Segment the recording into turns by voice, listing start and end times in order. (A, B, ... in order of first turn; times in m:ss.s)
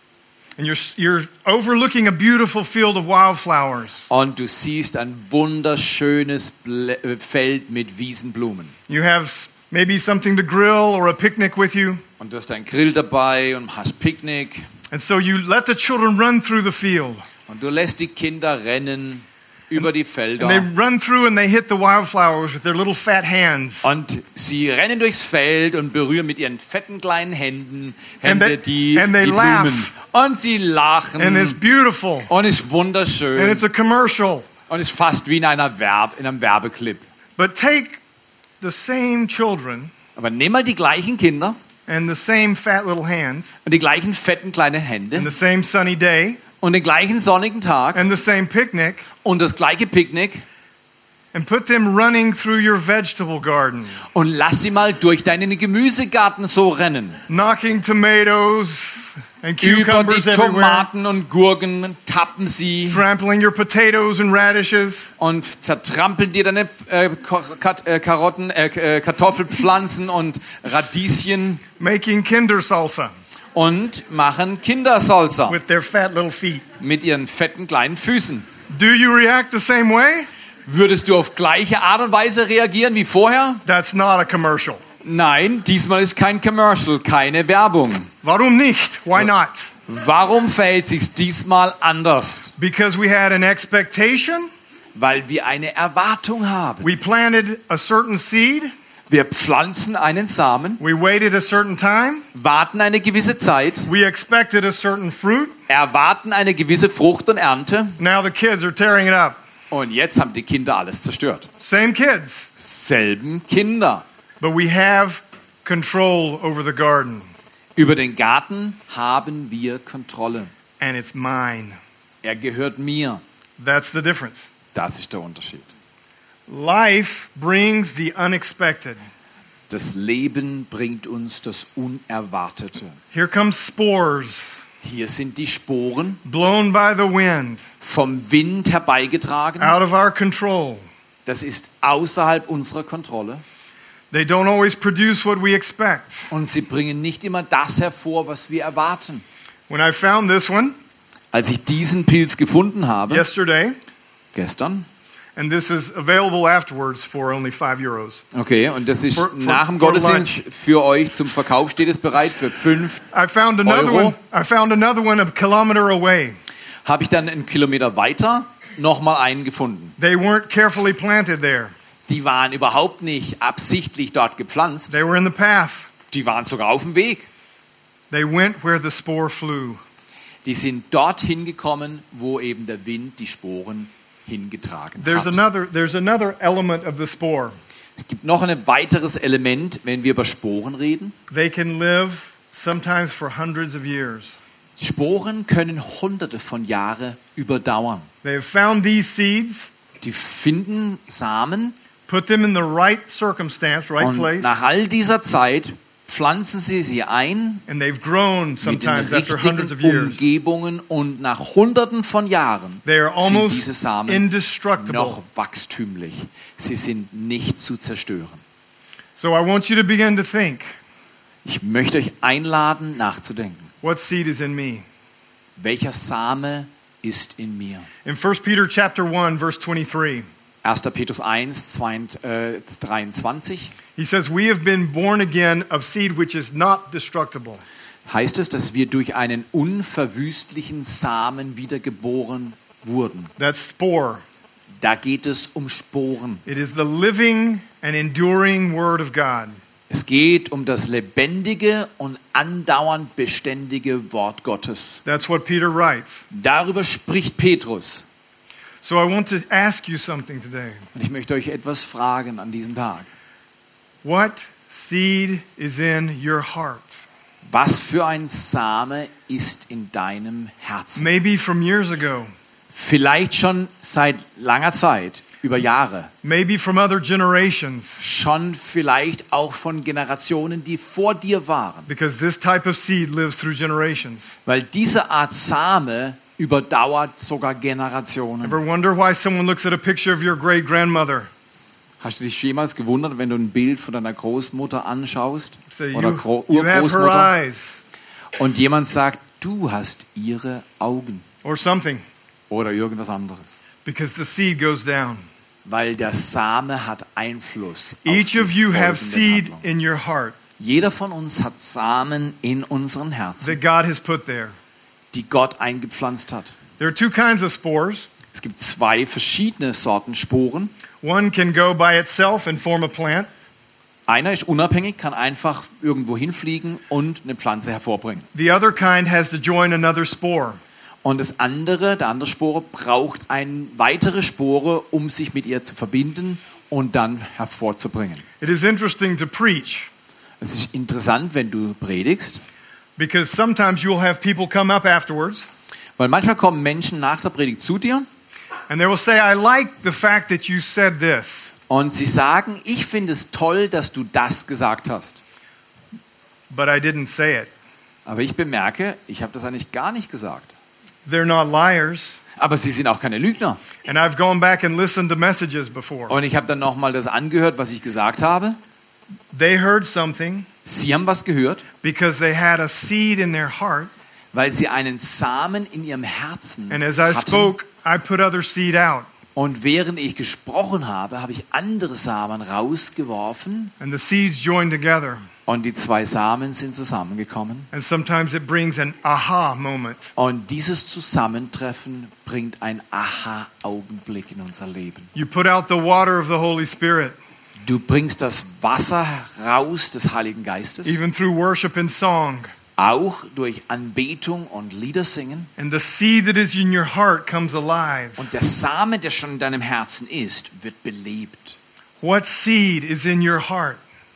0:00.6-0:04.0 A
0:04.1-0:08.7 B
0:08.9-0:12.0 A
0:12.2-0:14.7 B
0:14.9-0:17.3 A
0:17.5-0:20.7 B
0:20.4-0:23.8 A
0:23.8-0:31.6 B
0:28.2-0:29.9 A
0:31.2-0:32.3 A
0:32.3-0:33.6 B
0:33.4-0:34.5 A
0:34.7-0:37.0 B
0:37.4-0:38.0 A
0:38.6-0:39.9 A
0:40.2-0:41.6 B
0:41.9-0:43.5 A
0:43.6-0:45.3 B
0:45.2-0:46.4 A
0:46.6-0:48.0 B
0:48.0-0:49.1 A
0:49.2-0:50.4 B
0:51.3-0:54.0 A
0:54.1-0:57.2 B
0:57.3-1:00.9 A
0:59.6-1:03.0 B
1:02.9-1:05.1 A
1:05.2-1:11.6 B
1:11.8-1:13.1 A
1:13.6-1:15.6 B
1:15.5-1:16.6 A
1:16.8-1:18.5 B
1:18.7-1:20.3 A
1:20.7-1:23.6 B
1:23.7-1:24.8 A
1:25.0-1:28.1 B
1:28.2-1:29.7 A
1:29.9-1:32.5 B
1:32.6-1:34.5 A
1:35.0-1:36.9 B
1:36.8-1:38.7 A
1:39.1-1:40.8 B
1:40.8-1:42.2 A
1:42.3-1:43.9 B
1:43.9-1:45.6 A
1:45.7-1:48.0 B
1:48.0-1:49.4 A
1:49.7-1:51.5 B
1:51.6-1:52.5 A
1:52.6-1:54.0 B
1:54.4-1:57.3 A
1:57.8-2:00.5 B
2:00.8-2:01.8 A
2:02.2-2:03.2 B
2:03.6-2:04.5 A
2:04.7-2:05.7 B
2:06.5-2:09.0 A
2:09.7-2:13.0 B
2:13.1-2:14.5 A
2:14.8-2:16.2 B
2:16.2-2:17.6 A
2:17.8-2:19.8 B
2:19.6-2:20.8 A
2:21.3-2:23.4 B
2:24.1-2:26.3 A
2:26.3-2:29.2 B
2:29.7-2:30.8 A
2:31.3-2:33.3 B
2:33.1-2:33.8 A
2:34.3-2:34.9 B
2:35.4-2:38.2 A
2:38.3-2:43.0 B
2:39.2-2:40.4 A
2:43.1-2:46.4 A
2:43.6-2:44.2 B
2:46.8-2:50.0 B
2:50.0-2:51.7 A
2:52.1-2:55.0 B
2:54.9-2:55.9 A
2:56.1-2:57.3 B
2:58.1-2:59.8 A
3:00.4-3:05.4 B
3:05.0-3:07.6 A
3:08.0-3:11.1 B
3:11.3-3:14.4 A
3:14.8-3:18.1 B
3:18.2-3:19.7 A
3:20.0-3:21.8 B
3:22.1-3:24.6 A
3:24.0-3:27.6 B
3:27.7-3:30.2 A
3:28.6-3:34.3 B
3:32.8-3:35.2 A
3:34.8-3:38.4 B
3:39.2-3:40.8 A
3:41.4-3:43.7 B
3:43.8-3:44.8 A
3:45.6-3:47.9 B
3:48.0-3:50.3 A
3:50.6-3:53.8 B
3:54.0-3:57.6 A
3:58.1-4:03.3 B
4:03.4-4:04.2 A
4:04.8-4:06.4 B
4:06.5-4:09.6 A
4:09.9-4:15.0 B
4:15.0-4:16.2 A
4:16.3-4:18.0 B
4:18.8-4:20.8 A
4:21.0-4:23.1 B
4:24.0-4:27.0 A
4:27.5-4:31.1 B
4:31.0-4:32.3 A
4:32.7-4:36.1 B
4:36.2-4:38.0 A
4:38.0-4:41.9 B
4:41.9-4:44.4 A
4:44.5-4:48.6 B
4:48.4-4:51.3 A
4:52.0-4:57.3 B
4:55.7-4:57.8 A
4:58.4-5:01.2 B
5:01.4-5:02.0 A
5:02.5-5:03.6 B
5:03.8-5:05.3 A
5:05.7-5:09.6 B
5:08.1-5:10.4 A
5:10.6-5:13.6 B
5:13.4-5:14.6 A
5:15.1-5:16.6 B
5:16.8-5:18.1 A
5:18.3-5:20.7 B
5:21.0-5:23.3 A
5:24.1-5:28.3 B
5:28.3-5:30.6 A
5:31.0-5:38.2 B
5:38.4-5:39.9 A
5:40.4-5:42.4 B
5:43.0-5:45.5 A
5:46.0-5:48.1 B
5:48.7-5:51.5 A
5:51.7-5:55.2 B
5:56.5-5:57.5 A
5:58.1-6:00.5 B
6:01.1-6:02.2 A
6:02.4-6:03.6 B
6:03.8-6:06.2 A
6:06.1-6:08.6 B
6:09.3-6:10.5 A
6:10.6-6:11.6 B
6:11.8-6:13.9 A
6:14.3-6:17.5 B
6:16.7-6:19.1 A
6:19.4-6:23.7 B
6:23.8-6:25.2 A
6:25.5-6:27.7 B
6:27.7-6:30.1 A
6:30.2-6:35.1 B
6:35.2-6:37.2 A
6:37.6-6:41.0 B
6:40.8-6:42.5 A
6:42.8-6:45.5 B
6:45.6-6:48.3 A
6:48.2-6:51.6 B
6:52.0-6:53.8 A